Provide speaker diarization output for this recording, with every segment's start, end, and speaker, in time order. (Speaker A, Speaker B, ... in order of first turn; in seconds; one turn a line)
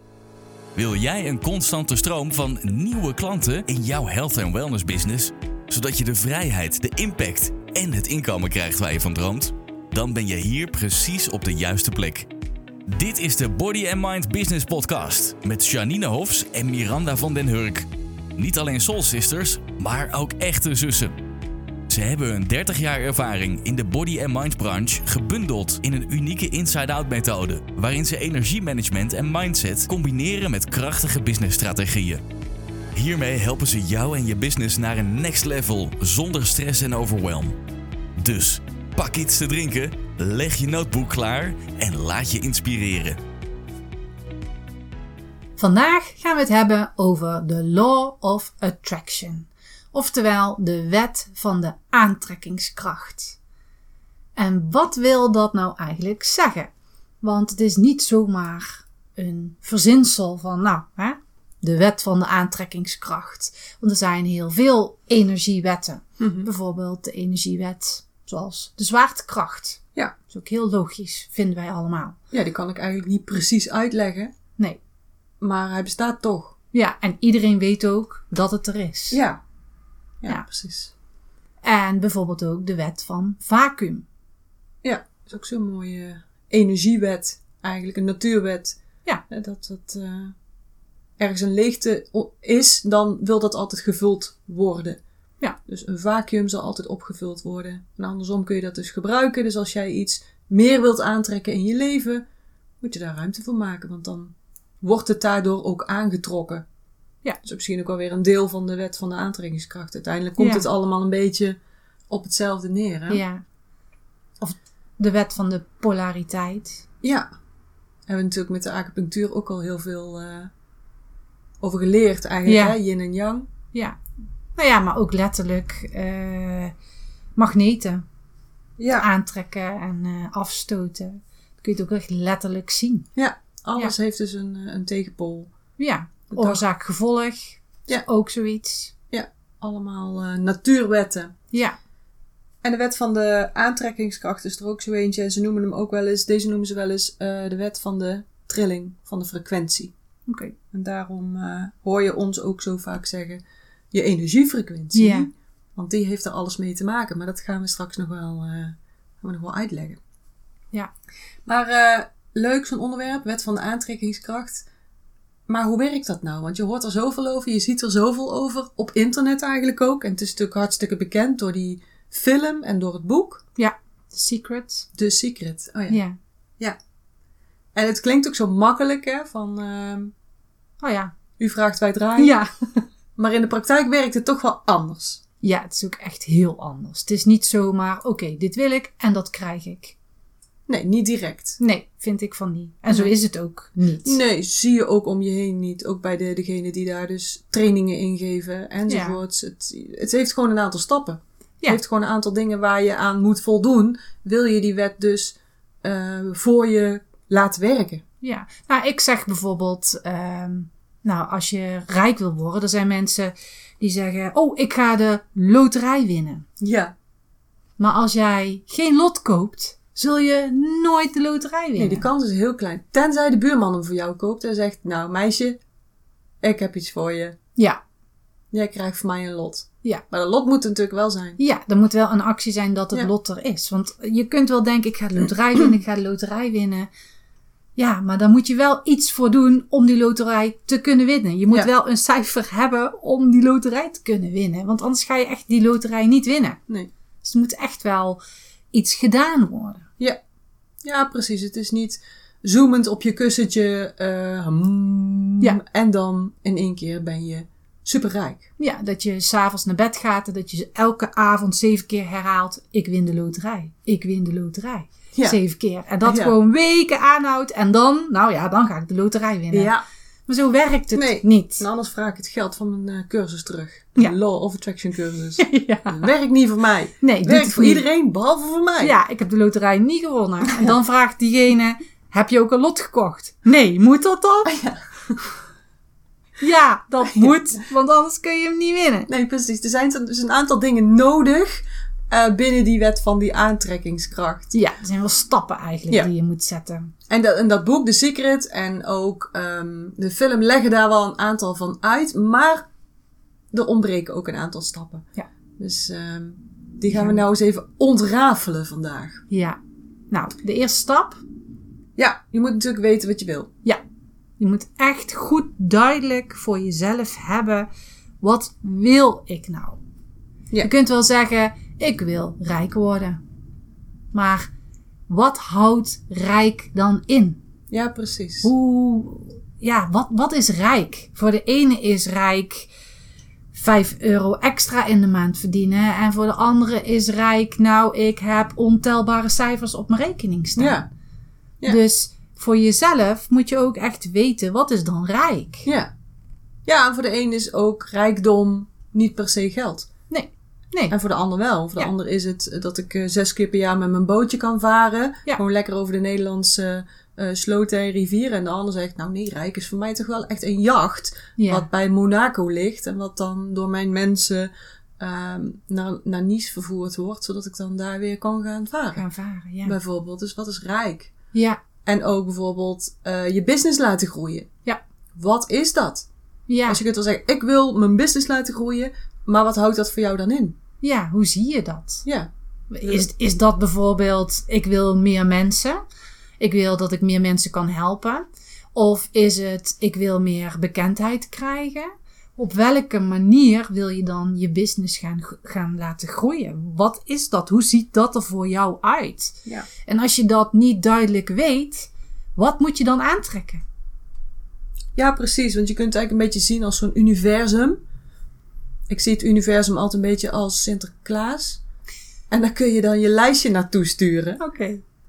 Speaker A: 0.7-12.3
Speaker A: 12.9-21.2
Speaker A: 21.9-32.2
Speaker A: 32.9-37.6
Speaker A: 38.2-43.2
Speaker B: 45.6-53.4
Speaker B: 54.4-56.7
Speaker B: 57.2-72.2
Speaker C: 66.2-66.5
Speaker C: 72.3-74.3
Speaker C: 75.4-76.5
Speaker B: 76.7-79.2
Speaker C: 79.1-79.4
Speaker C: 80.2-80.9
Speaker B: 81.6-84.0
Speaker C: 84.8-90.3
Speaker C: 91.2-95.0
Speaker C: 95.7-102.2
Speaker C: 102.8-106.6
Speaker C: 107.4-111.6
Speaker B: 110.4-110.7
Speaker C: 112.1-113.2
Speaker B: 113.1-113.4
Speaker B: 114.4-116.8
Speaker C: 117.0-117.3
Speaker C: 118.1-120.5
Speaker C: 121.6-123.5
Speaker B: 122.5-122.8
Speaker B: 123.7-124.0
Speaker B: 124.5-126.7
Speaker B: 127.3-128.0
Speaker C: 128.8-129.1
Speaker B: 129.0-133.1
Speaker C: 133.2-135.5
Speaker B: 135.8-138.9
Speaker C: 136.3-136.6
Speaker C: 139.1-141.3
Speaker B: 141.5-141.8
Speaker C: 142.6-149.9
Speaker B: 150.3-150.5
Speaker C: 150.7-160.0
Speaker B: 154.9-155.3
Speaker C: 161.4-164.7
Speaker C: 165.5-173.4
Speaker B: 173.6-174.9
Speaker C: 174.9-176.0
Speaker B: 175.9-176.2
Speaker C: 177.7-180.1
Speaker B: 180.8-181.1
Speaker C: 181.4-182.4
Speaker B: 182.2-182.8
Speaker C: 183.2-185.2
Speaker B: 185.4-189.9
Speaker C: 190.7-191.6
Speaker B: 191.6-194.2
Speaker C: 194.0-208.0
Speaker B: 198.9-199.2
Speaker B: 208.2-216.4
Speaker C: 216.6-216.9
Speaker B: 217.8-222.1
Speaker C: 221.8-225.6
Speaker C: 226.4-227.3
Speaker B: 227.6-227.8
Speaker C: 228.5-231.4
Speaker B: 231.4-236.9
Speaker B: 237.8-246.6
Speaker B: 247.2-248.2
Speaker B: 248.7-249.9
Speaker C: 250.8-258.5
Speaker B: 258.6-269.7
Speaker C: 266.0-266.3
Speaker C: 269.5-269.8
Speaker B: 270.3-271.6
Speaker C: 270.9-278.9
Speaker B: 275.4-276.1
Speaker B: 277.0-277.9
Speaker B: 278.8-284.5
Speaker C: 284.4-285.2
Speaker B: 286.4-289.1
Speaker C: 287.1-287.3
Speaker C: 289.1-294.5
Speaker B: 294.5-296.9
Speaker C: 297.1-302.6
Speaker C: 303.5-305.1
Speaker C: 305.6-309.2
Speaker B: 306.9-307.2
Speaker B: 309.3-309.6
Speaker B: 310.1-311.2
Speaker C: 311.9-313.5
Speaker B: 314.4-317.7
Speaker B: 318.2-319.8
Speaker B: 320.6-323.2
Speaker B: 324.1-324.5
Speaker B: 325.1-327.4
Speaker C: 327.7-328.5
Speaker B: 328.4-332.7
Speaker B: 333.5-340.8
Speaker C: 340.6-340.9
Speaker B: 341.6-345.7
Speaker C: 346.6-349.9
Speaker B: 350.1-350.9
Speaker C: 350.9-369.0
Speaker B: 361.4-361.7
Speaker B: 368.9-369.8
Speaker C: 369.6-371.1
Speaker B: 371.3-371.6
Speaker C: 371.8-374.5
Speaker C: 375.1-376.1
Speaker B: 376.5-376.8
Speaker C: 376.6-380.6
Speaker B: 380.8-382.0
Speaker B: 382.7-385.8
Speaker B: 386.4-403.6
Speaker C: 404.9-407.8
Speaker C: 408.9-411.6
Speaker C: 412.3-414.4
Speaker B: 414.4-414.8